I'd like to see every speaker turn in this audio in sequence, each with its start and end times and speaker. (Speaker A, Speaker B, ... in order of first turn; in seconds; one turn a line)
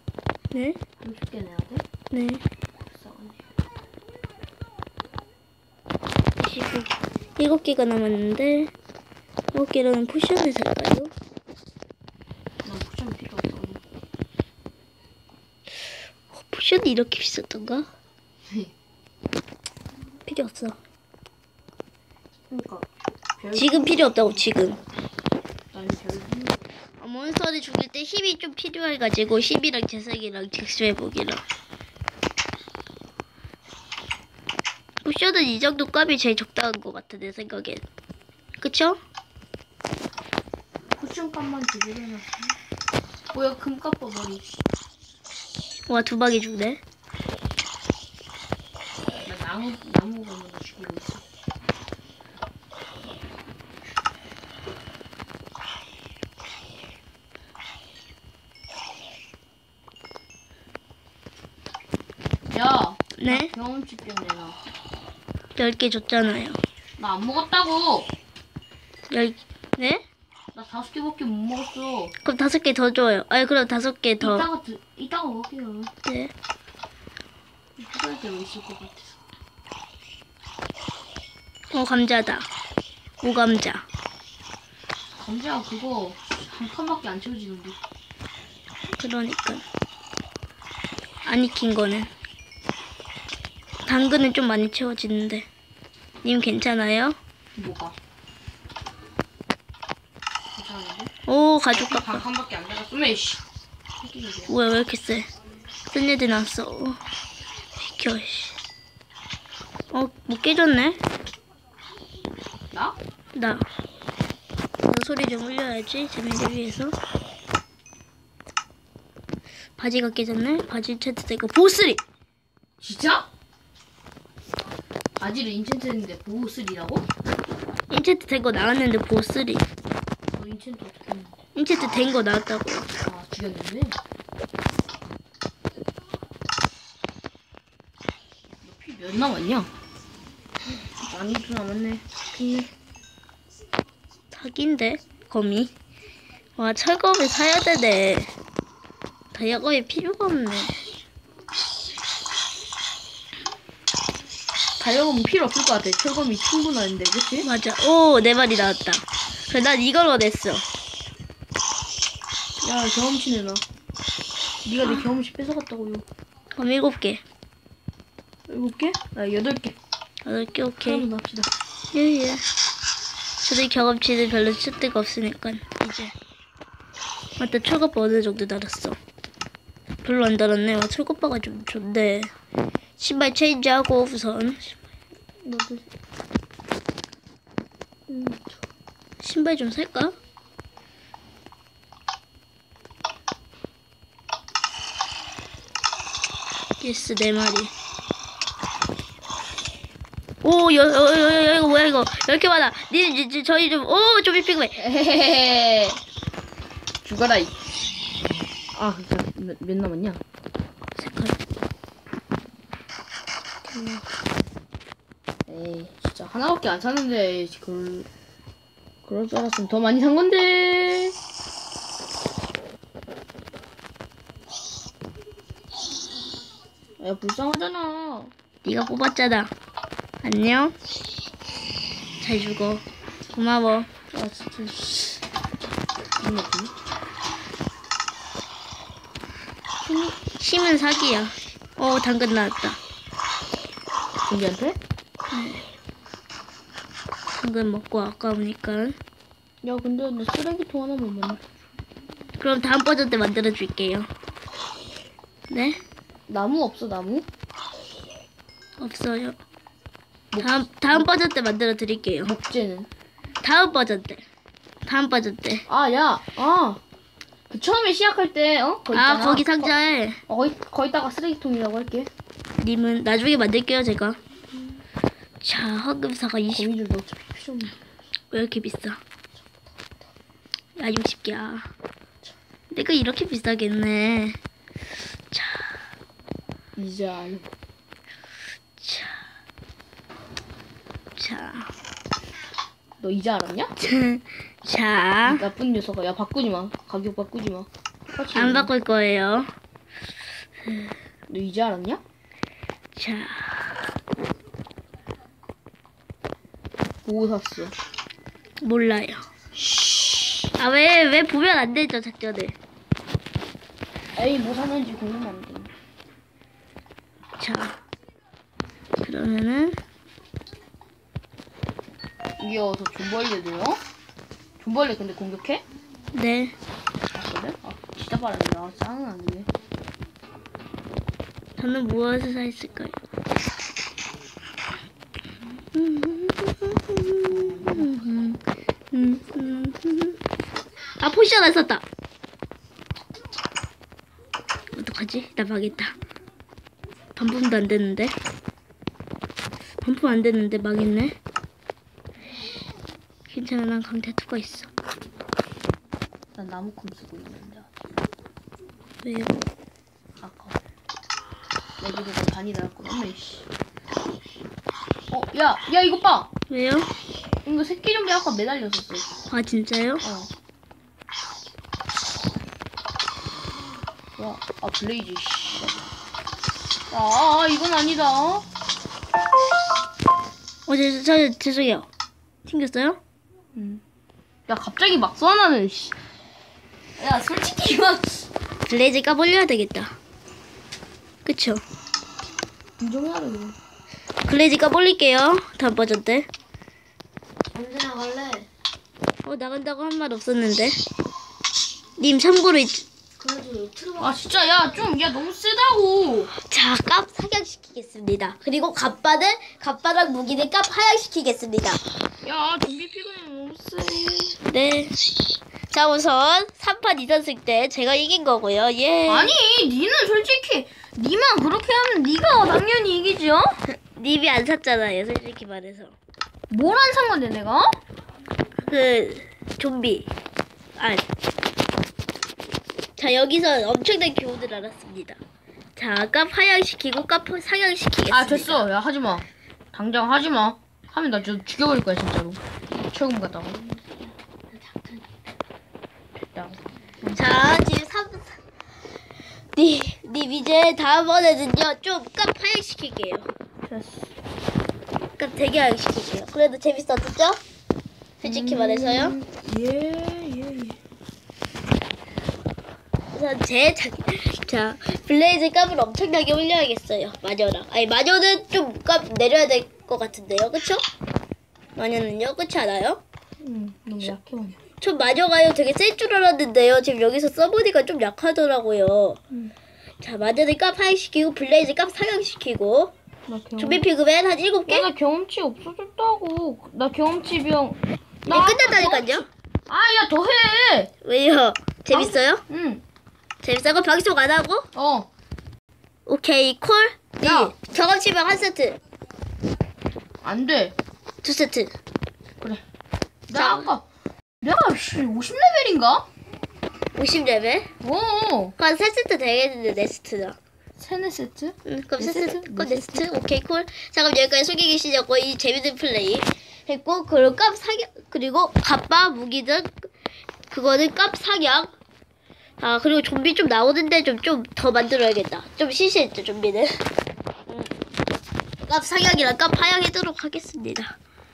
Speaker A: 0.5-0.8
Speaker B: 1.0-1.8
Speaker A: 2.1-2.4
Speaker B: 2.9-3.4
Speaker A: 6.4-8.7
Speaker A: 9.5-11.1
Speaker B: 12.6-13.8
Speaker A: 16.3-17.9
Speaker A: 20.2-20.8
Speaker B: 22.5-22.9
Speaker B: 23.4-24.5
Speaker A: 23.5-24.8
Speaker B: 25.7-26.6
Speaker A: 27.0-31.4
Speaker A: 35.0-37.8
Speaker A: 38.6-39.0
Speaker B: 40.9-42.5
Speaker B: 43.3-44.4
Speaker A: 45.9-46.8
Speaker B: 49.2-51.2
Speaker B: 62.5-64.6
Speaker A: 63.1-63.5
Speaker A: 65.5-66.6
Speaker B: 67.0-68.1
Speaker A: 69.1-70.0
Speaker B: 70.5-72.1
Speaker A: 72.2-74.5
Speaker B: 74.2-75.9
Speaker A: 76.0-76.3
Speaker B: 77.8-79.2
Speaker A: 81.7-82.5
Speaker A: 83.2-83.8
Speaker B: 85.2-87.8
Speaker A: 89.0-89.6
Speaker A: 91.2-92.1
Speaker A: 93.8-95.5
Speaker A: 96.2-97.2
Speaker B: 97.5-98.0
Speaker B: 100.5-101.1
Speaker A: 101.3-102.2
Speaker B: 101.7-103.4
Speaker B: 104.0-104.5
Speaker A: 104.5-105.3
Speaker A: 105.9-107.0
Speaker A: 107.8-108.6
Speaker A: 109.9-111.0
Speaker B: 112.7-113.0
Speaker A: 113.3-113.6
Speaker A: 114.8-117.0
Speaker A: 119.8-122.0
Speaker B: 122.8-123.3
Speaker B: 125.2-127.1
Speaker A: 127.9-129.7
Speaker B: 130.3-131.4
Speaker A: 131.5-132.9
Speaker B: 133.0-133.9
Speaker B: 138.6-139.7
Speaker B: 141.0-142.7
Speaker A: 144.3-145.7
Speaker A: 146.6-148.3
Speaker A: 149.3-150.7
Speaker B: 154.8-157.5
Speaker A: 157.4-160.6
Speaker B: 162.6-163.6
Speaker B: 164.6-166.1
Speaker A: 166.6-167.2
Speaker B: 168.5-169.7
Speaker A: 170.2-171.1
Speaker B: 170.8-171.5
Speaker A: 171.9-172.4
Speaker A: 173.4-176.1
Speaker A: 177.4-179.0
Speaker A: 180.0-182.3
Speaker A: 183.0-184.8
Speaker B: 185.4-185.9
Speaker B: 188.1-188.6
Speaker A: 189.2-190.2
Speaker A: 196.8-197.7
Speaker A: 200.4-204.8
Speaker B: 204.8-206.0
Speaker B: 207.0-207.5
Speaker B: 208.7-210.2
Speaker A: 210.9-211.4
Speaker B: 213.6-214.0
Speaker B: 215.5-218.1
Speaker B: 219.1-221.2
Speaker B: 227.0-228.3
Speaker A: 228.6-229.5
Speaker A: 230.2-230.7
Speaker A: 232.2-233.9
Speaker B: 234.1-235.2
Speaker B: 236.2-236.7
Speaker B: 239.8-240.2
Speaker A: 240.4-242.8
Speaker B: 244.3-244.8
Speaker A: 245.3-245.6
Speaker A: 247.4-249.0
Speaker B: 249.6-251.4
Speaker A: 252.4-254.1
Speaker A: 255.5-255.8
Speaker B: 256.3-257.3
Speaker A: 258.8-259.4
Speaker B: 260.3-261.1
Speaker A: 260.4-262.3
Speaker B: 262.2-262.9
Speaker A: 263.4-264.2
Speaker A: 264.9-265.6
Speaker B: 265.7-266.8
Speaker B: 267.5-269.7
Speaker A: 268.9-270.2
Speaker B: 270.3-272.1
Speaker A: 272.6-274.2
Speaker A: 275.4-276.7
Speaker B: 276.5-277.7
Speaker A: 278.3-279.0
Speaker A: 280.8-281.7
Speaker A: 282.7-284.4
Speaker A: 285.3-285.7
Speaker B: 286.8-287.5
Speaker A: 288.8-289.2
Speaker A: 291.1-291.7
Speaker B: 293.0-293.7
Speaker A: 293.8-295.4
Speaker B: 295.2-298.7
Speaker A: 298.3-299.5
Speaker A: 300.7-300.9
Speaker B: 301.3-302.0
Speaker A: 302.9-303.8
Speaker B: 307.0-307.7
Speaker A: 308.6-309.2
Speaker B: 309.5-310.5
Speaker A: 310.6-312.6
Speaker B: 314.1-315.7
Speaker A: 317.4-317.8
Speaker A: 319.0-319.8
Speaker B: 322.4-323.8
Speaker B: 324.6-325.6
Speaker A: 326.1-326.5
Speaker B: 327.1-329.5
Speaker A: 331.6-332.9
Speaker A: 335.7-338.4
Speaker B: 337.3-338.4
Speaker A: 338.9-340.2
Speaker A: 341.0-341.8
Speaker A: 344.7-345.9
Speaker A: 347.1-348.1
Speaker A: 349.8-351.1
Speaker A: 353.3-354.7
Speaker B: 356.4-357.7
Speaker A: 359.0-359.4
Speaker B: 360.2-360.6
Speaker B: 361.8-363.5
Speaker B: 365.1-366.3
Speaker A: 366.5-366.9
Speaker B: 367.4-369.1
Speaker A: 369.3-370.0
Speaker B: 370.0-370.3
Speaker B: 374.2-375.8
Speaker B: 376.9-378.5
Speaker A: 380.7-381.9
Speaker A: 382.4-383.0
Speaker B: 383.5-383.8
Speaker B: 384.5-385.9
Speaker B: 387.0-388.3
Speaker A: 388.7-390.0
Speaker A: 391.2-391.6
Speaker B: 392.8-393.6
Speaker A: 394.2-396.3
Speaker A: 397.6-398.4
Speaker A: 399.2-400.8
Speaker A: 402.0-404.2
Speaker B: 404.0-406.3
Speaker A: 406.5-411.8
Speaker B: 412.2-414.4
Speaker A: 414.4-415.1
Speaker A: 415.7-419.3
Speaker B: 419.1-423.6
Speaker A: 423.9-425.9
Speaker B: 426.5-427.8
Speaker A: 428.6-430.1
Speaker A: 430.8-431.0
Speaker A: 433.0-435.2
Speaker A: 435.8-438.6
Speaker B: 438.1-444.1
Speaker B: 446.2-447.2
Speaker A: 447.1-448.4
Speaker A: 449.5-453.3
Speaker B: 453.6-454.1
Speaker A: 455.2-457.4
Speaker A: 458.2-459.1
Speaker B: 458.2-460.8
Speaker A: 463.1-470.9
Speaker A: 471.8-473.0
Speaker B: 473.4-474.6
Speaker A: 474.8-479.2
Speaker A: 480.0-482.9
Speaker B: 483.3-483.8
Speaker A: 483.6-484.9
Speaker B: 484.6-490.9
Speaker A: 488.3-489.3
Speaker A: 491.0-492.4
Speaker B: 491.9-492.8
Speaker A: 493.4-494.7
Speaker B: 494.7-495.1
Speaker A: 496.1-498.8
Speaker B: 497.2-497.5
Speaker B: 500.2-500.8
Speaker A: 501.2-501.7
Speaker B: 503.3-503.8
Speaker A: 503.3-503.7
Speaker B: 504.4-506.1
Speaker A: 506.9-507.7
Speaker B: 507.8-508.6
Speaker A: 508.6-510.4
Speaker B: 510.8-513.1
Speaker A: 511.6-519.9
Speaker A: 520.5-521.7
Speaker A: 522.6-526.8
Speaker A: 528.6-531.0